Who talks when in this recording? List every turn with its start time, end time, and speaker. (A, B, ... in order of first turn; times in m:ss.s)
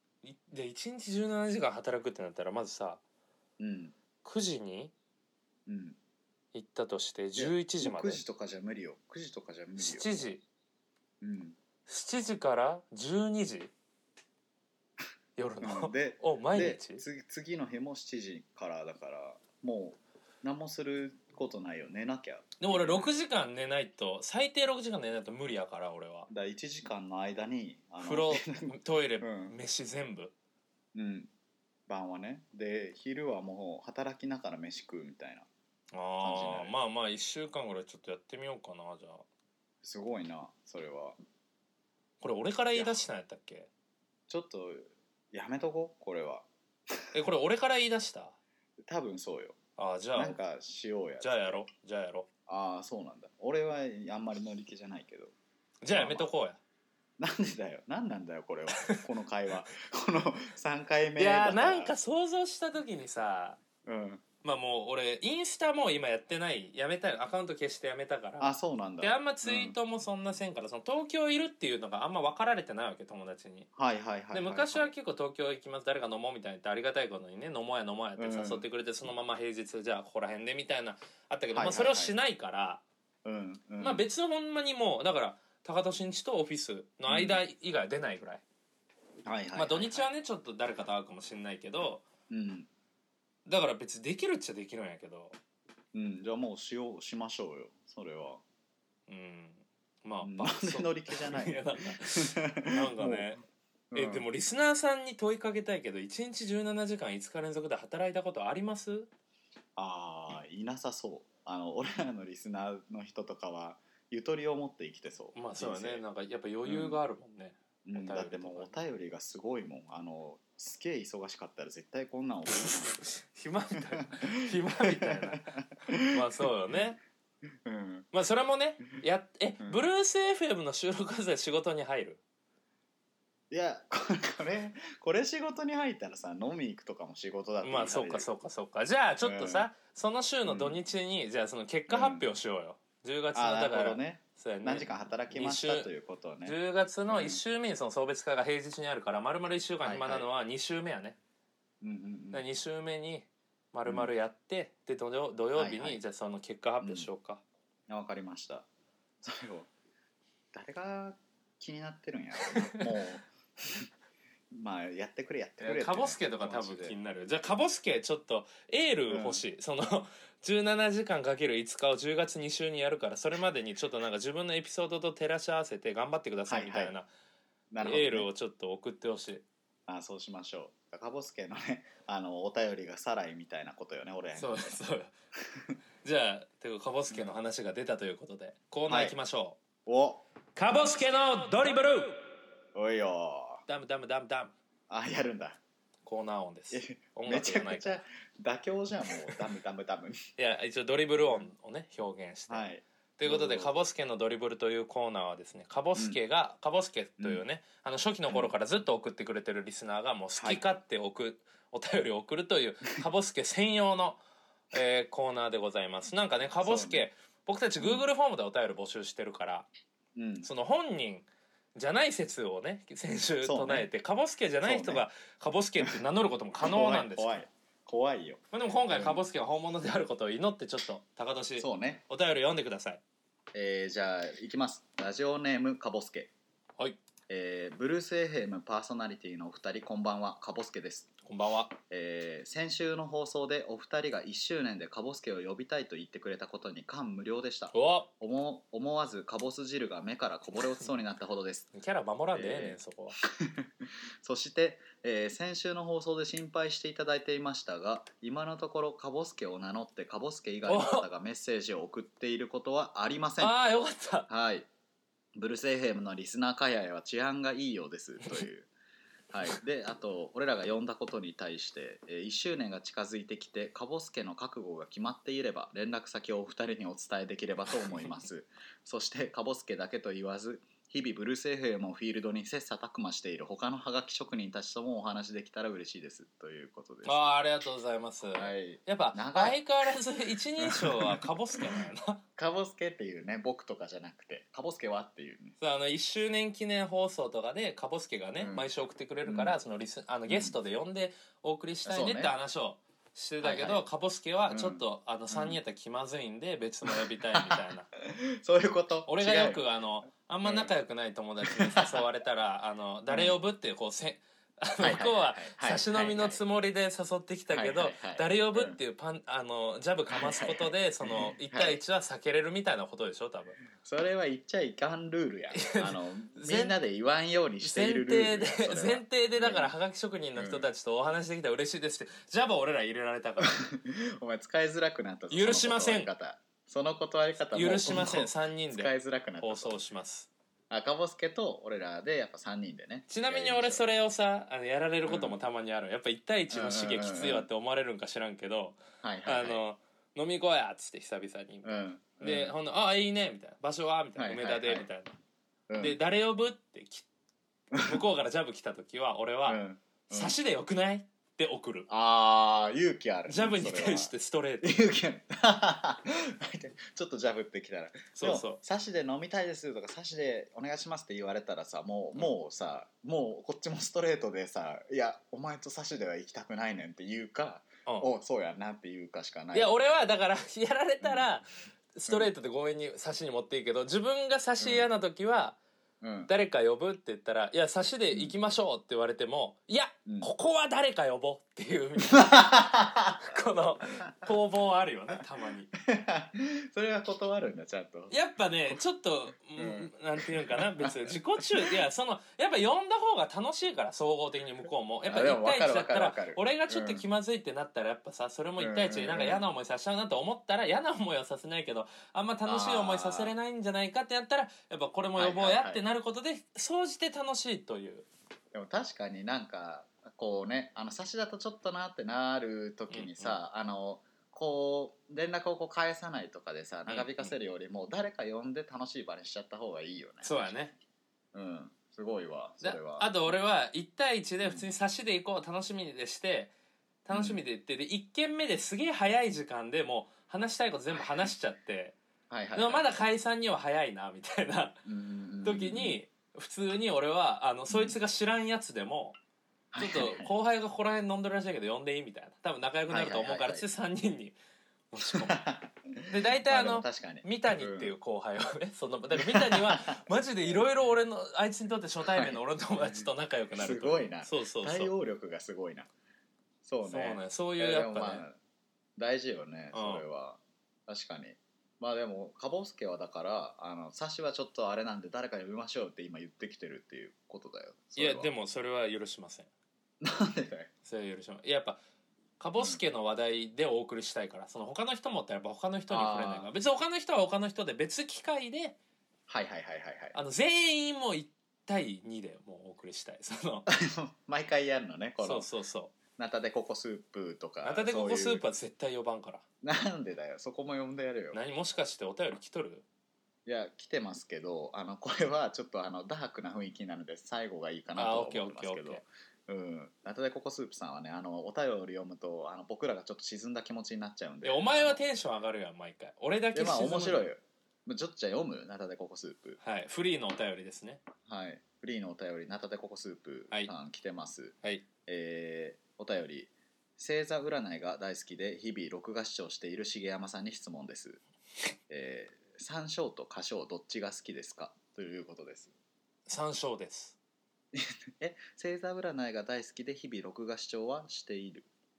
0:00.2-0:03.0 A
0:03.6-0:04.0 B
0:04.2-0:04.9 A
0:05.7-0:06.0 B
0:06.5-0:08.2 A
0:07.4-0:10.2 B
0:09.8-0:10.4 A
0:11.2-0:11.6 B
0:11.9-0:13.7 A
0:15.4-0:17.0 A
0:15.6-0:23.1 B
0:22.6-0:26.3 A
0:26.3-0:29.6 B
0:28.0-0:30.3 A
0:30.9-0:31.3 B
0:31.9-0:35.5 B
0:35.9-0:39.2 A
0:36.2-0:36.7 B
0:39.8-0:41.2 B
0:42.2-0:43.7 A
0:42.8-0:43.1 B
0:44.3-0:47.0 B
0:47.1-0:48.4 A
0:48.8-0:49.6 B
0:49.8-0:50.4 A
0:50.2-0:51.6 B
0:51.2-0:52.3 A
0:52.5-0:55.3 B
0:55.8-0:56.6 A
0:55.9-0:56.3 B
0:57.2-1:02.0 B
0:58.8-0:59.0 A
1:01.2-1:03.6 A
1:03.8-1:04.2 B
1:04.4-1:13.7 A
1:08.4-1:09.7 B
1:13.8-1:14.9 B
1:14.3-1:22.8 A
1:18.2-1:18.6 B
1:21.5-1:22.2 B
1:23.2-1:24.0 B
1:23.8-1:28.4 A
1:27.1-1:27.4 B
1:29.2-1:30.1 B
1:29.6-1:32.1 A
1:32.3-1:32.7 B
1:33.5-1:35.4 A
1:35.9-1:38.4 B
1:39.1-1:43.4 A
1:40.2-1:43.4 B
1:43.9-1:44.2 B
1:43.9-1:49.1 A
1:49.8-1:56.0 B
1:55.4-1:58.8 A
1:56.7-1:57.0 B
1:57.8-2:03.0 B
2:02.5-2:05.5 A
2:04.0-2:04.3 B
2:04.8-2:06.2 B
2:06.1-2:07.0 A
2:07.6-2:08.1 B
2:08.1-2:12.2 A
2:13.5-2:18.3 B
2:17.6-2:25.9 A
2:19.2-2:19.7 B
2:20.5-2:20.8 B
2:21.9-2:22.3 B
2:23.3-2:26.6 B
2:26.4-2:31.2 A
2:27.1-2:27.4 B
2:29.8-2:30.3 B
2:31.8-2:32.4 B
2:32.3-2:37.4 A
2:35.6-2:36.0 B
2:36.8-2:37.1 B
2:37.9-2:38.7 B
2:39.2-2:39.7 B
2:40.5-2:43.9 B
2:42.5-2:42.9 A
2:44.5-2:47.0 B
2:45.6-2:57.1 A
2:49.1-2:49.4 B
2:56.5-2:56.9 B
2:57.7-2:58.3 B
2:57.8-2:59.4 A
2:59.9-3:04.8 B
3:04.4-3:05.1 A
3:05.5-3:05.8 B
3:06.0-3:09.6 A
3:07.1-3:07.4 B
3:08.9-3:09.2 B
3:09.9-3:10.2 B
3:10.6-3:12.2 A
3:12.8-3:13.6 B
3:13.7-3:14.6 A
3:14.9-3:15.6 B
3:16.1-3:18.0 A
3:16.7-3:20.2 B
3:20.4-3:22.7 A
3:22.5-3:23.7 B
3:23.2-3:34.2 A
3:30.4-3:30.6 B
3:34.7-3:39.7 A
3:36.6-3:37.1 B
3:37.8-3:38.0 B
3:40.2-3:40.5 B
3:40.4-3:47.4 A
3:43.4-3:43.9 B
3:44.6-3:45.0 B
3:46.6-3:49.2 B
3:48.5-3:53.0 A
3:51.6-3:52.0 B
3:53.5-3:56.3 B
3:57.3-4:01.1 B
4:01.2-4:01.8 A
4:01.9-4:11.7 B
4:07.7-4:08.1 A
4:11.7-4:13.2 A
4:12.3-4:23.6 B
4:20.7-4:21.1 A
4:23.4-4:24.3 A
4:24.3-4:24.7 B
4:25.4-4:28.7 B
4:29.3-4:47.3 B
4:47.0-4:52.2 A
4:48.4-4:49.6 B
4:50.6-4:51.8 B
4:52.4-4:55.6 B
4:55.6-5:07.9 A
4:58.4-4:58.7 B
4:59.3-4:59.6 B
5:00.3-5:00.6 B
5:01.8-5:02.3 B
5:03.4-5:03.8 B
5:04.5-5:05.6 B
5:06.8-5:09.6 B
5:09.1-5:23.6 A
5:10.4-5:10.7 B
5:11.4-5:12.0 B
5:13.1-5:13.4 B
5:14.8-5:16.4 B
5:17.5-5:18.8 B
5:20.1-5:21.8 B
5:23.8-5:29.7 B
5:25.5-5:26.8 A
5:27.6-5:33.6 A
5:30.4-5:30.7 B
5:33.4-5:39.8 B
5:35.3-5:36.1 A
5:37.5-5:40.3 A
5:40.7-5:43.9 B
5:43.1-5:55.2 A
5:45.1-5:45.4 B
5:46.5-5:47.5 B
5:49.0-5:49.6 B
5:51.6-5:52.6 B
5:54.2-5:54.9 B
5:55.7-5:56.0 B
5:55.8-5:57.1 A
5:57.7-5:58.0 B
5:57.8-6:01.9 A
5:59.5-6:00.4 B
6:01.9-6:20.0 B
6:03.3-6:04.8 A
6:08.2-6:08.6 A
6:19.5-6:25.6 A
6:21.0-6:21.3 B
6:24.6-6:24.9 B
6:26.0-6:26.3 B
6:26.3-6:35.7 A
6:32.1-6:33.2 B
6:35.8-6:38.1 B
6:38.1-6:58.1 A
6:39.6-6:41.7 B
6:45.1-6:47.0 B
6:48.6-6:49.4 B
6:52.4-6:53.3 B
6:55.2-6:55.8 B
6:58.5-7:10.6 B
7:02.9-7:03.4 A
7:06.9-7:07.3 A
7:10.2-7:10.7 A
7:11.3-7:13.3 B
7:12.6-7:16.5 A
7:17.1-7:22.0 A
7:17.1-7:17.4 B
7:21.0-7:21.3 B
7:22.3-7:22.9 B
7:22.6-7:24.8 A
7:24.8-7:26.0 B
7:25.4-7:29.2 A
7:27.7-7:28.0 B
7:29.7-7:30.3 B
7:29.8-7:34.4 A
7:32.9-7:33.7 B
7:34.9-7:35.5 A
7:35.1-7:38.0 B
7:36.1-7:44.9 A
7:39.2-7:40.6 B
7:42.1-7:42.4 B
7:42.9-7:45.9 B
7:46.6-7:48.4 B
7:46.8-7:48.2 A
7:49.0-7:58.3 B
7:49.7-7:50.1 A
7:58.0-7:59.5 A
8:00.0-8:00.7 B
8:00.8-8:01.8 A
8:02.4-8:08.8 A
8:05.9-8:06.5 B
8:09.3-8:10.2 B
8:10.1-8:13.7 A
8:13.7-8:15.5 B
8:15.2-8:15.9 A
8:16.2-8:18.4 B
8:17.6-8:19.4 A
8:19.6-8:21.4 B
8:21.3-8:22.8 A
8:23.5-8:35.0 B
8:28.0-8:29.0 A
8:34.4-8:37.3 A
8:36.5-8:39.6 B
8:39.6-8:41.0 A
8:41.3-8:51.2 B
8:51.9-8:55.7 B
8:56.3-8:57.2 A
8:57.7-9:01.7 B